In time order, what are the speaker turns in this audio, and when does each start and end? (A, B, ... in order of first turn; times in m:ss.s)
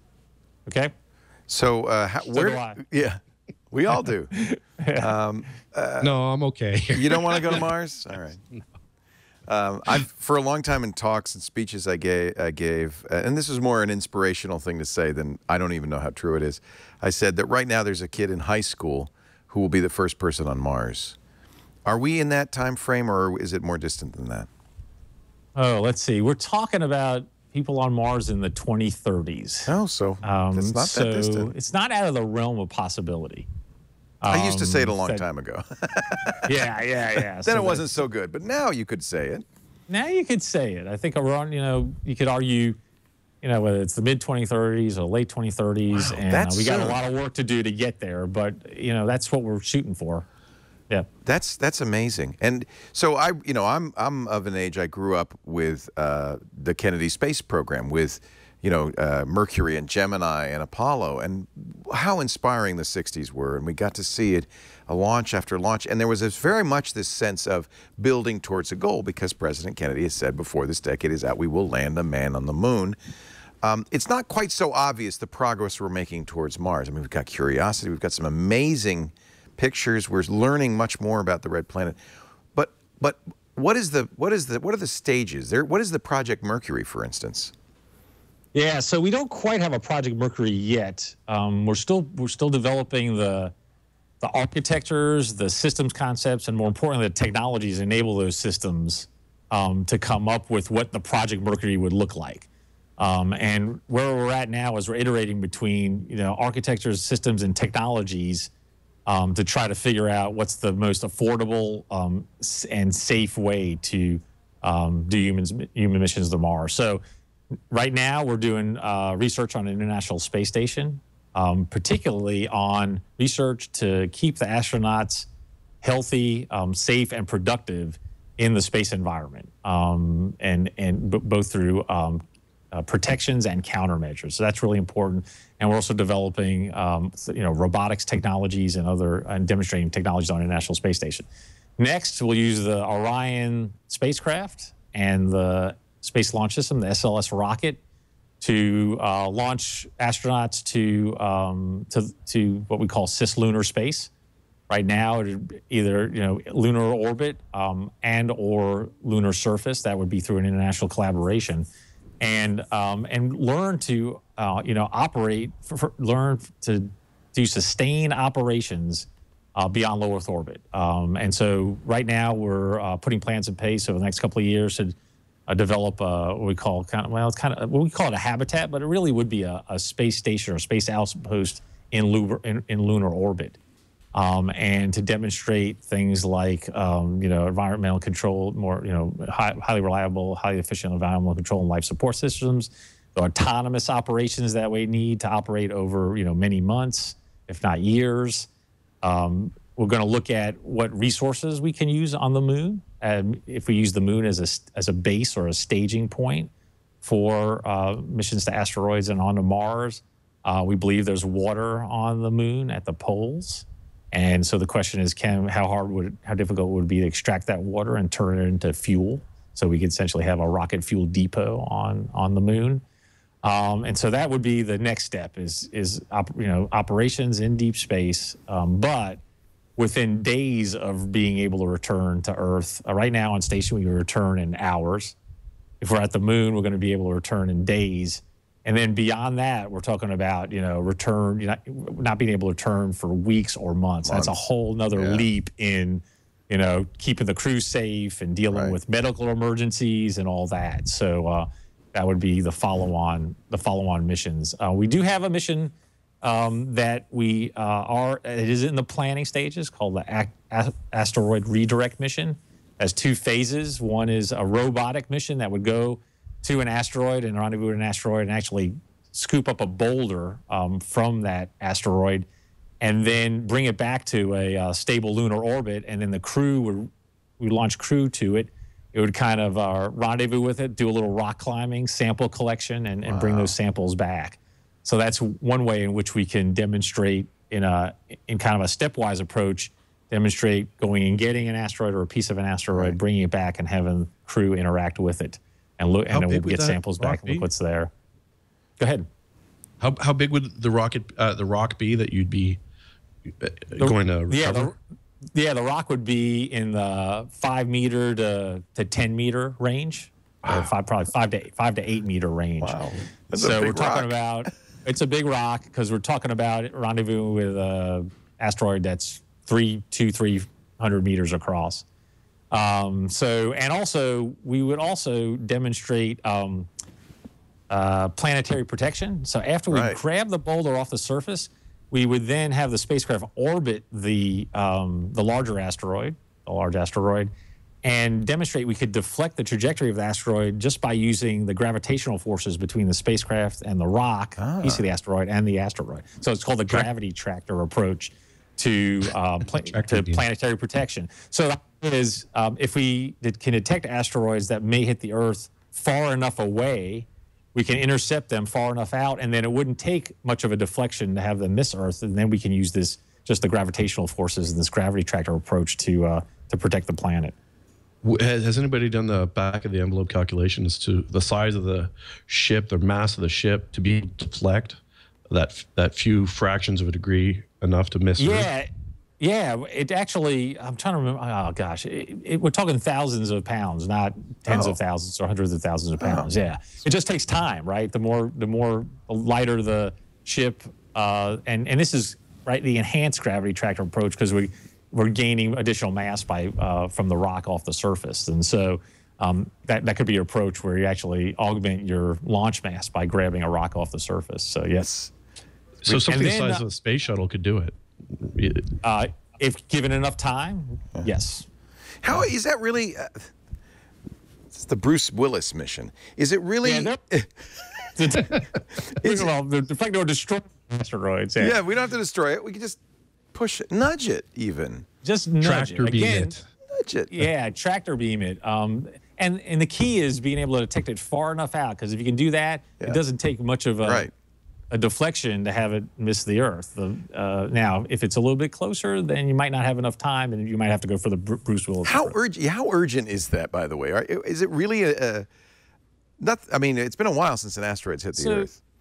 0:01.5-0:03.2 A
0:02.3-0:02.8 B
0:03.7-0:04.3 A
0:04.3-0:05.1 B
0:05.0-0:06.1 A
0:06.0-0:07.7 C
0:06.9-0:08.4 A
0:09.5-0:21.2 A
0:21.8-0:24.5 A
0:25.6-0:29.7 B
0:29.7-0:31.5 A
0:30.2-0:33.5 B
0:34.2-0:35.2 B
0:34.3-0:36.5 A
0:36.4-0:38.0 B
0:37.4-0:39.4 A
0:39.9-0:42.8 B
0:43.4-0:50.2 B
0:46.1-0:47.0 A
0:51.3-1:13.0 A
1:13.6-1:22.0 A
1:22.6-1:27.5 A
1:28.5-1:33.5 B
1:34.2-1:48.5 B
1:49.1-1:57.0 B
1:57.7-2:05.3 B
2:05.8-2:21.3 B
2:21.8-2:27.8 B
2:28.4-2:34.1 B
2:34.7-2:41.7 B
2:42.2-2:55.0 B
2:55.5-3:03.6 B
3:04.1-3:18.5 B
3:19.0-3:26.5 B
3:27.0-3:42.8 B
3:43.4-3:49.2 B
3:49.8-3:55.2 B
3:55.8-4:32.3 B
4:04.0-4:04.4 A
4:04.9-4:05.3 A
4:08.5-4:08.8 A
4:32.8-4:57.9 B
4:43.0-4:43.6 A
4:56.1-4:57.5 C
4:58.8-4:59.1 B
4:59.8-5:02.6 C
5:03.4-5:04.7 C
5:03.8-5:04.8 B
5:05.3-5:12.8 B
5:12.6-5:14.1 A
5:13.3-5:21.8 B
5:22.5-5:26.7 B
5:27.7-5:37.3 B
5:29.7-5:30.0 A
5:37.8-6:07.4 B
5:44.4-5:44.8 A
5:49.7-5:50.2 C
6:08.0-6:18.5 C
6:18.2-6:18.7 B
6:19.2-6:45.1 B
6:24.5-6:24.8 A
6:26.0-6:26.3 A
6:45.8-6:48.7 C
6:46.1-6:46.6 B
6:48.8-6:51.5 B
6:52.0-6:53.3 A
6:54.5-6:57.7 A
6:56.6-6:57.0 B
6:58.0-7:01.6 B
6:59.0-6:59.3 A
7:01.4-7:02.8 A
7:03.3-7:04.8 A
7:05.0-7:06.4 B
7:05.4-7:06.4 C
7:06.7-7:07.1 A
7:07.1-7:14.1 B
7:13.8-7:14.1 A
7:14.7-7:22.2 B
7:21.8-7:25.3 A
7:26.2-7:28.6 A
7:28.1-7:28.5 B